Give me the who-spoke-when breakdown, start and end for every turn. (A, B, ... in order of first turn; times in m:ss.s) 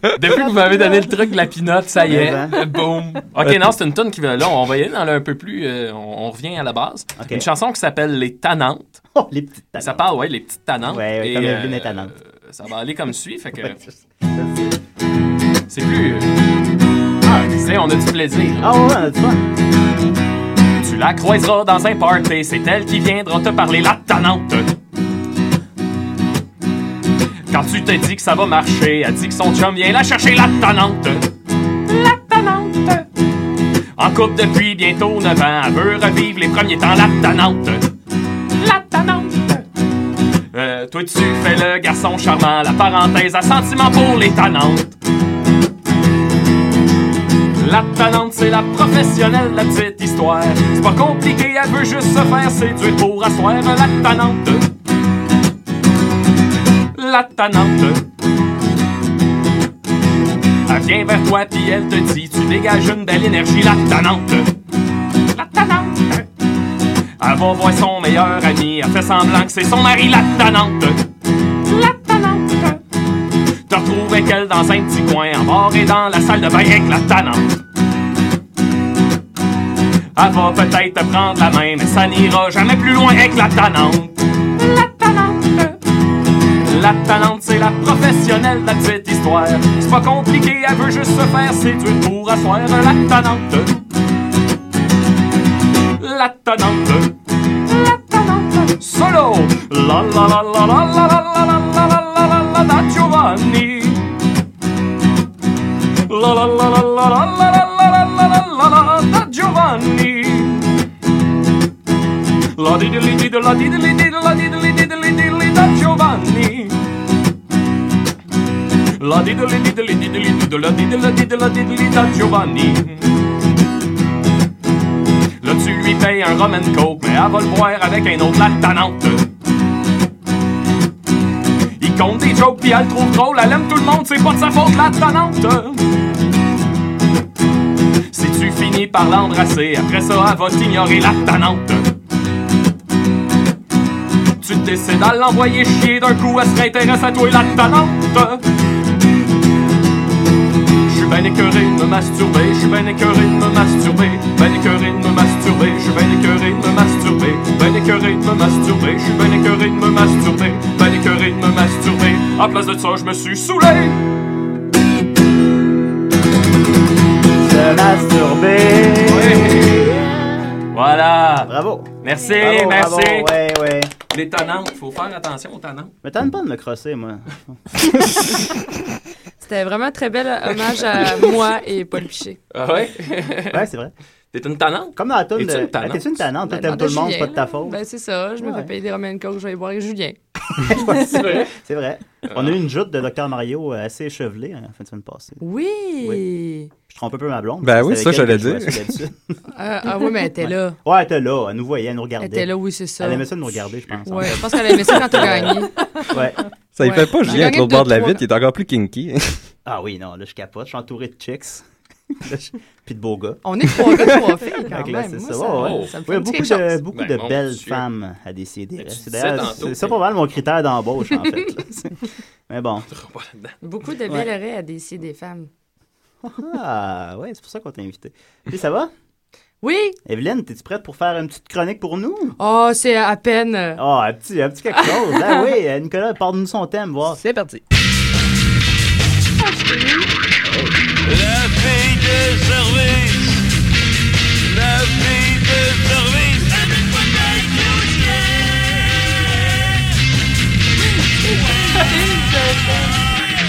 0:00.1-0:09.0 A
0:02.0-0:02.6 B
0:07.2-0:07.5 B
0:09.1-0:10.1 B
0:09.8-0:13.8 A
0:10.8-0:12.1 B
0:13.6-0:14.8 B
0:15.7-0:16.3 A
0:17.2-0:17.6 B
0:17.5-0:18.8 A
0:18.6-0:19.5 B
0:20.8-0:24.8 A
0:27.5-0:31.3 A
0:31.9-0:33.0 A
0:34.0-0:37.9 A
0:38.6-0:39.6 A
0:40.5-0:44.9 A
0:47.6-0:54.7 A
0:56.9-0:58.0 A
1:00.6-1:04.5 A
1:05.3-1:06.2 A
1:07.2-1:11.0 A
1:11.7-1:12.8 A
1:13.7-1:17.6 A
1:20.1-1:24.4 A
1:25.2-1:25.7 A
1:26.6-1:33.8 A
1:36.0-1:37.1 A
1:37.7-1:44.1 A
1:46.1-1:50.7 A
1:52.5-1:56.8 A
1:59.0-2:03.1 A
2:05.4-2:09.3 A
2:11.8-2:15.9 A
2:18.1-2:21.9 A
2:24.4-2:28.4 A
2:30.9-2:44.0 A
2:47.4-2:50.1 B
2:49.1-2:50.0 A
2:50.7-2:53.3 A
2:51.4-2:53.9 B
2:54.1-2:55.9 A
2:56.0-2:57.6 B
2:59.4-3:02.4 C
3:02.5-3:03.6 A
3:03.5-3:03.9 B
3:04.3-3:06.2 A
3:04.9-3:07.8 B
3:06.4-3:10.2 C
3:08.4-3:08.7 B
3:10.6-3:15.4 B
3:11.0-3:11.5 A
3:12.2-3:12.6 A
3:15.4-3:16.7 C
3:16.9-3:19.4 B
3:17.6-3:18.9 D
3:19.5-3:20.8 C
3:20.4-3:26.4 B
3:22.2-3:23.3 C
3:24.0-3:25.8 C
3:26.7-3:29.5 D
3:26.8-3:28.2 C
3:29.6-3:34.0 B
3:33.4-3:36.8 C
3:34.7-3:42.9 B
3:35.6-3:36.0 A
3:36.9-3:37.8 A
3:38.8-3:40.0 A
3:42.9-3:43.6 A
3:43.6-3:45.5 C
3:46.2-3:48.9 B
3:49.6-3:50.0 C
3:50.0-3:52.4 B
3:52.4-3:53.8 C
3:53.8-3:57.2 B
3:55.0-3:55.4 C
3:57.2-3:57.6 D
3:59.4-4:00.1 C
4:01.0-4:03.4 E
4:04.4-4:09.9 E
4:11.6-4:12.0 E
4:11.7-4:12.9 C
4:12.7-4:13.2 E